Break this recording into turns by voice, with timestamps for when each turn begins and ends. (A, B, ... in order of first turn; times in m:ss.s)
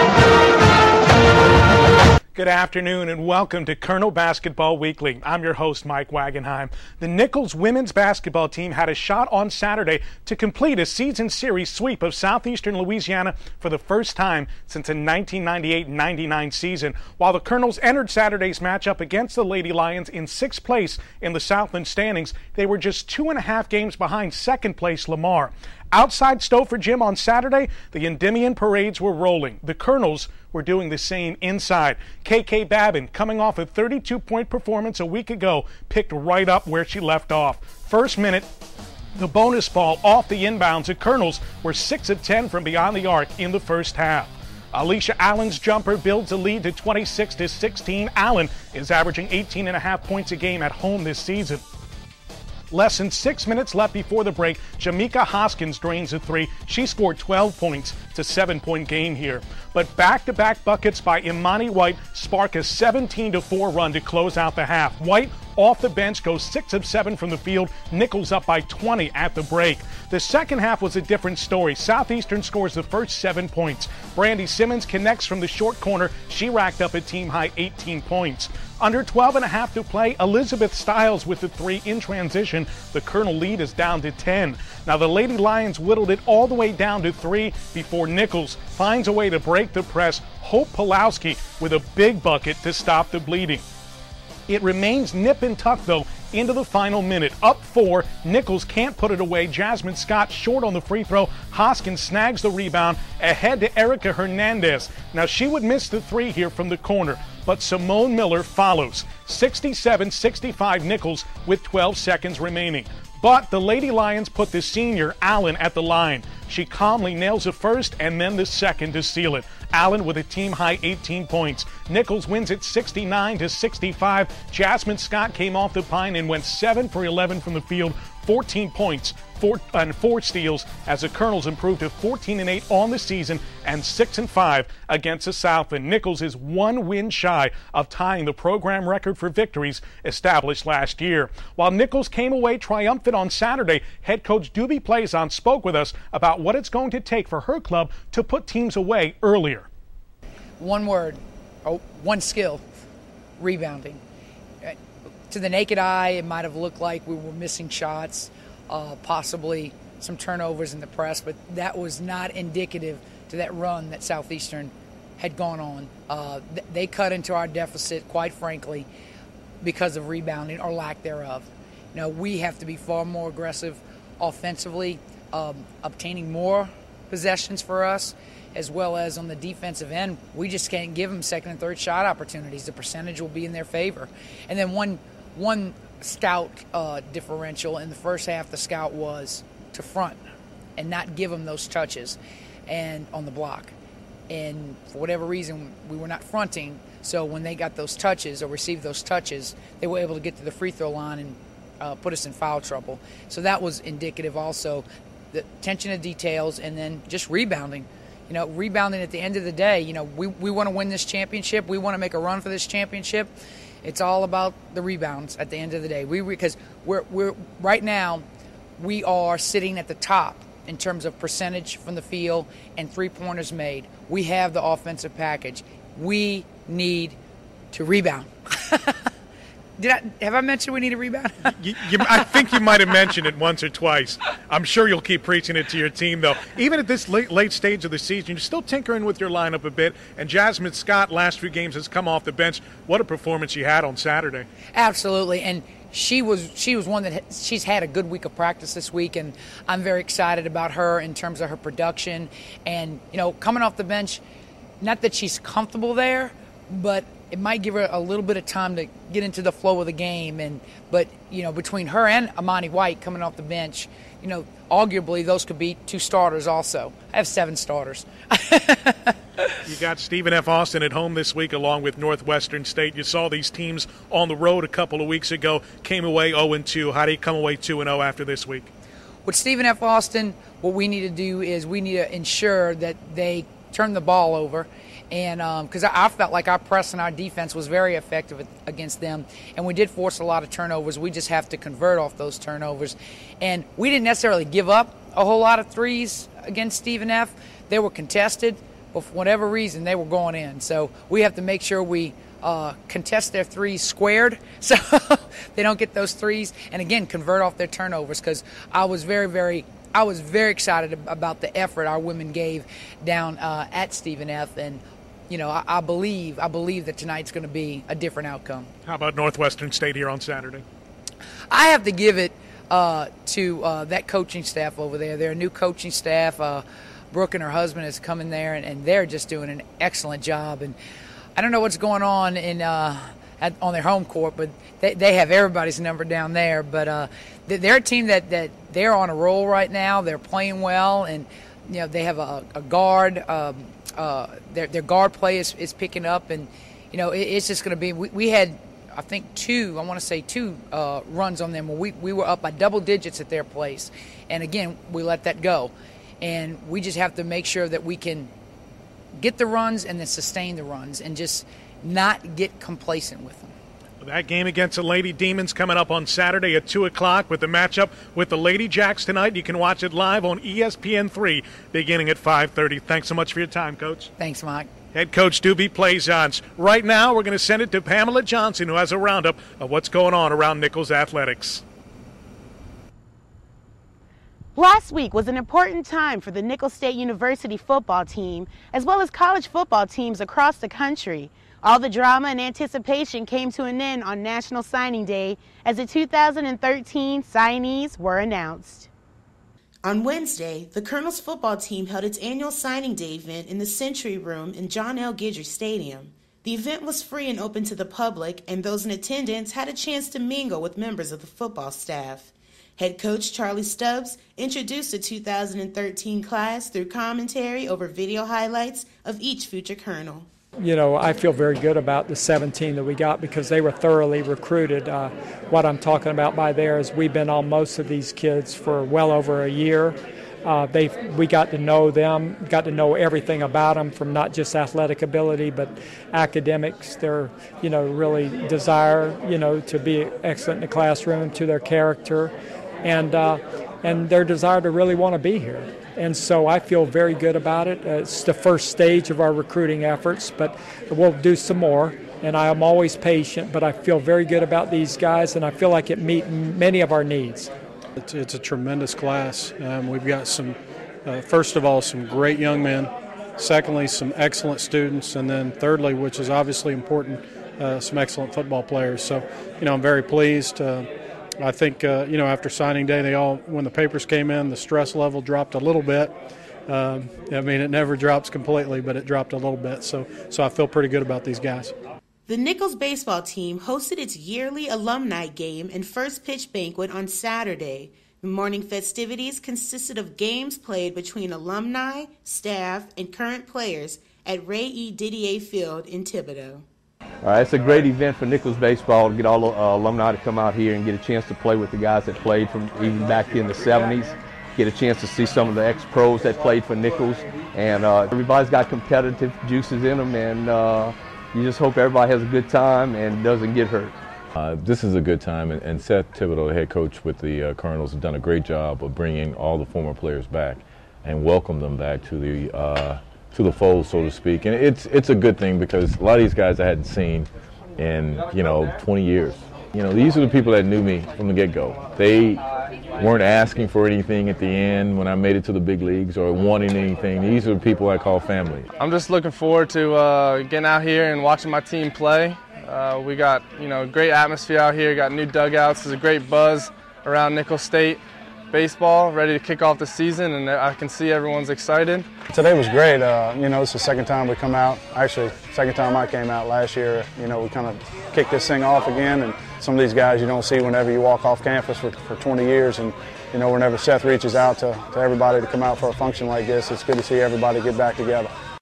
0:02.4-0:38.5 A
0:39.2-0:51.6 A
0:52.7-1:33.6 A
1:34.5-2:29.7 A
2:30.6-2:32.6 B
2:33.4-2:34.0 B
2:35.3-2:48.9 B
2:49.6-3:10.2 B
3:10.8-3:13.8 B
3:14.3-3:38.3 B
3:38.8-3:47.2 B
3:47.7-3:49.0 B
3:49.8-3:52.9 B
3:51.5-4:04.5 A
4:04.7-4:14.2 B
4:14.8-4:29.6 B
4:29.6-4:38.7 A
4:39.3-5:18.7 B
5:18.9-5:20.6 A
5:21.5-5:30.8 B
5:31.4-5:58.3 B
5:59.2-6:03.5 B
6:04.0-6:14.1 A
6:14.2-6:14.7 B
6:14.9-6:21.6 A
6:24.6-6:38.9 C
6:39.8-7:00.3 D
7:00.6-7:37.5 E
7:38.0-7:56.2 F
7:56.7-8:01.8 F
8:02.3-8:16.6 D
8:17.2-8:33.9 G
8:34.4-8:52.4 H
8:53.0-8:58.7 H
8:58.8-9:12.1 I
9:12.3-9:28.3 J